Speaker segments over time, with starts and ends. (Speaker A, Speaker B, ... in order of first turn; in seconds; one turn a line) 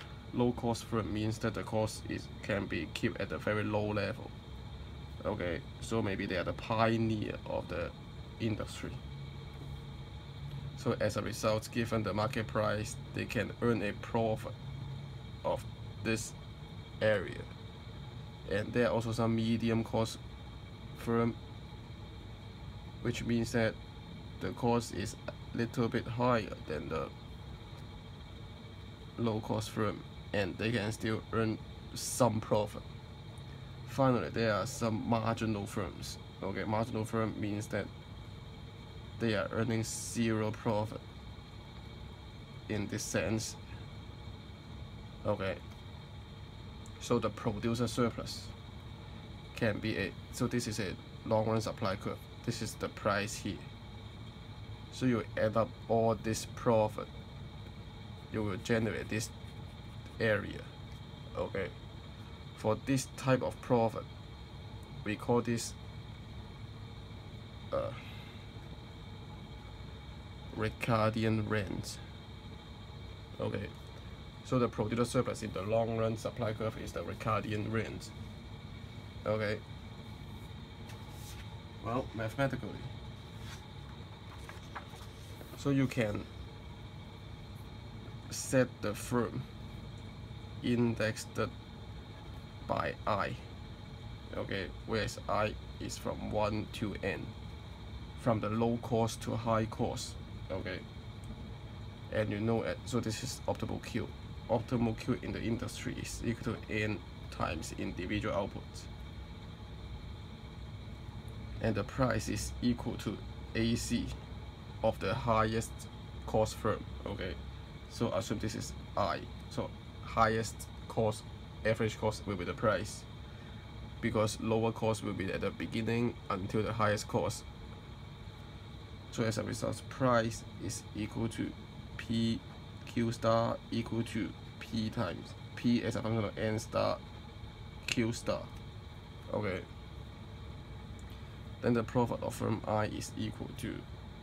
Speaker A: 0.3-4.3
Speaker A: 5.2-9.0
Speaker A: 10.8-14.6
Speaker A: 15.4-16.4
Speaker A: 17.0-17.5
Speaker A: 18.4-20.2
Speaker A: 20.9-21.4
Speaker A: 23.0-23.8
Speaker A: 24.4-27.1
Speaker A: 29.2-32.8
Speaker A: 33.9-37.9
Speaker A: 39.2-41.0
Speaker A: 42.7-43.6
Speaker A: 45.2-45.6
Speaker A: 47.0-48.5
Speaker A: 49.5-53.7
Speaker A: 54.9-57.1
Speaker A: 58.3-59.3
Speaker A: 60.2-60.8
Speaker A: 61.3-61.8
Speaker A: 62.5-64.1
Speaker A: 65.0-65.8
Speaker A: 67.7-68.4
Speaker A: 70.5-72.0
Speaker A: 73.4-73.8
Speaker A: 74.4-78.1
Speaker A: 79.2-79.6
Speaker A: 81.8-82.9
Speaker A: 85.6-86.3
Speaker A: 88.3-89.5
Speaker A: 90.6-91.5
Speaker A: 92.7-93.5
Speaker A: 94.3-97.3
Speaker A: 98.2-100.9
Speaker A: 102.1-108.9
Speaker A: 111.6-114.2
Speaker A: 114.8-123.1
Speaker A: 124.0-127.5
Speaker A: 129.1-137.0
Speaker A: 137.8-138.5
Speaker A: 139.3-139.7
Speaker A: 141.6-143.9